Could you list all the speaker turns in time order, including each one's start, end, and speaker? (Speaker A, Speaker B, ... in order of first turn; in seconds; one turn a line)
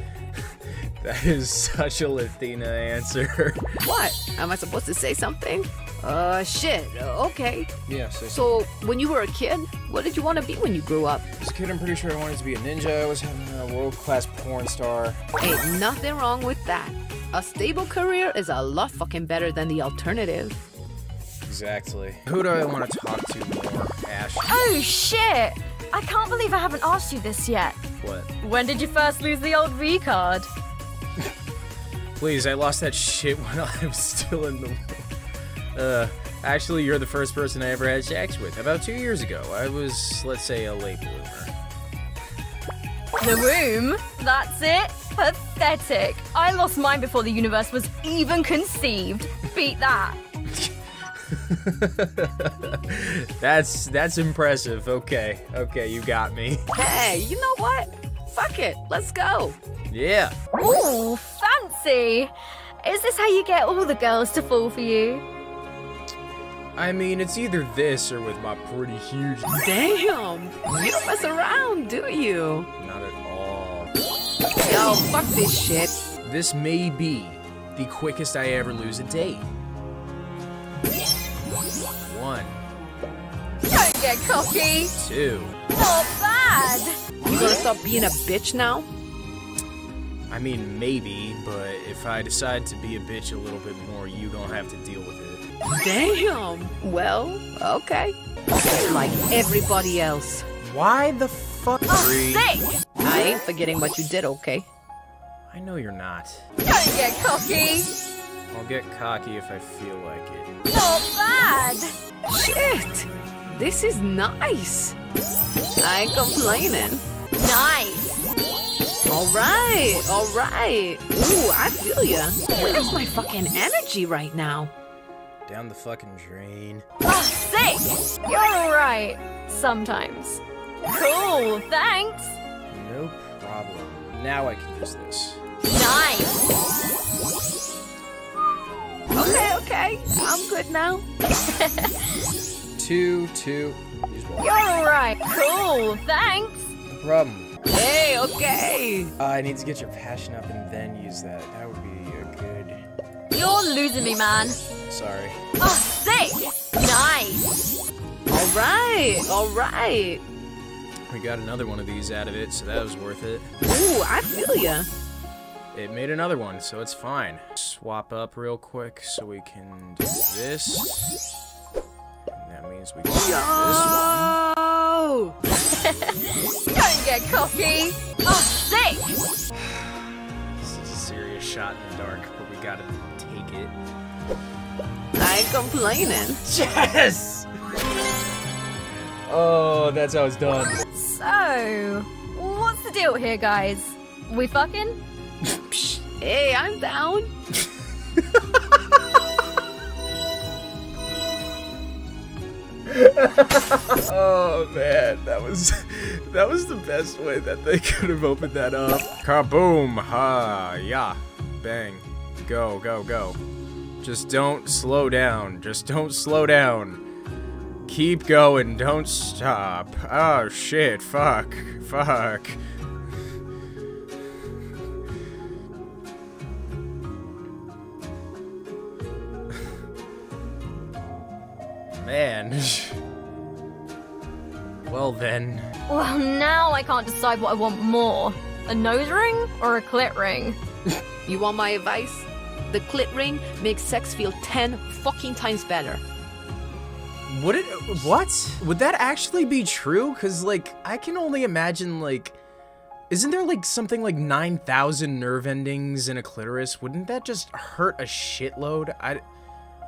Speaker A: 0.8-3.8
Speaker B: 3.8-7.7
Speaker A: 7.8-8.7
Speaker B: 8.3-11.2
Speaker A: 11.4-15.2
Speaker B: 15.4-20.6
Speaker A: 21.4-24.5
Speaker C: 24.4-27.8
Speaker A: 28.0-28.3
Speaker C: 28.4-30.5
Speaker A: 32.2-35.0
Speaker A: 35.7-41.5
Speaker C: 43.2-50.2
Speaker A: 51.3-56.6
Speaker B: 56.7-59.6
Speaker A: 59.9-60.4
Speaker C: 60.5-62.3
Speaker C: 62.8-65.2
Speaker A: 66.8-69.5
Speaker B: 69.5-72.7
Speaker A: 72.8-73.9
Speaker B: 74.6-75.9
Speaker A: 76.2-79.5
Speaker A: 82.0-82.6
Speaker C: 83.7-84.9
Speaker A: 85.0-85.6
Speaker C: 85.7-87.0
Speaker B: 87.2-88.9
Speaker A: 90.3-95.5
Speaker B: 95.7-100.5
Speaker A: 100.6-102.5
Speaker C: 101.9-102.8
Speaker B: 103.0-104.7
Speaker A: 105.5-106.5
Speaker C: 106.7-107.9
Speaker A: 108.5-110.5
Speaker C: 110.7-111.9
Speaker B: 112.3-115.0
Speaker B: 115.8-117.0
Speaker C: 117.4-118.2
Speaker B: 119.1-124.7
Speaker A: 125.5-126.8
Speaker C: 127.0-132.3
Speaker A: 132.7-135.4
Speaker C: 135.6-136.4
Speaker B: 139.1-141.0
Speaker C: 141.4-142.2
Speaker A: 142.8-144.6
Speaker C: 144.4-146.7
Speaker A: 146.8-147.5
Speaker B: 147.7-149.1
Speaker A: 149.2-152.8
Speaker C: 153.3-154.6
Speaker A: 154.9-155.4
Speaker C: 155.6-157.6
Speaker B: 158.3-160.2
Speaker A: 161.1-163.5
Speaker B: 163.6-164.9
Speaker A: 165.7-171.2
Speaker A: 172.3-174.4
Speaker B: 173.1-175.4
Speaker C: 175.5-179.2
Speaker A: 179.5-183.8
Speaker B: 185.1-186.4
Speaker A: 186.4-187.5
Speaker A: 189.2-190.8
Speaker C: 190.9-194.9
Speaker B: 195.7-197.3
Speaker A: 202.9-213.4
Speaker A: 214.0-217.0
Speaker A: 217.9-222.6
Speaker A: 232.0-233.0
Speaker A: 234.8-235.7
Speaker C: 235.9-240.6
Speaker B: 241.2-246.0
Speaker A: 247.3-252.4
Speaker A: 253.1-259.2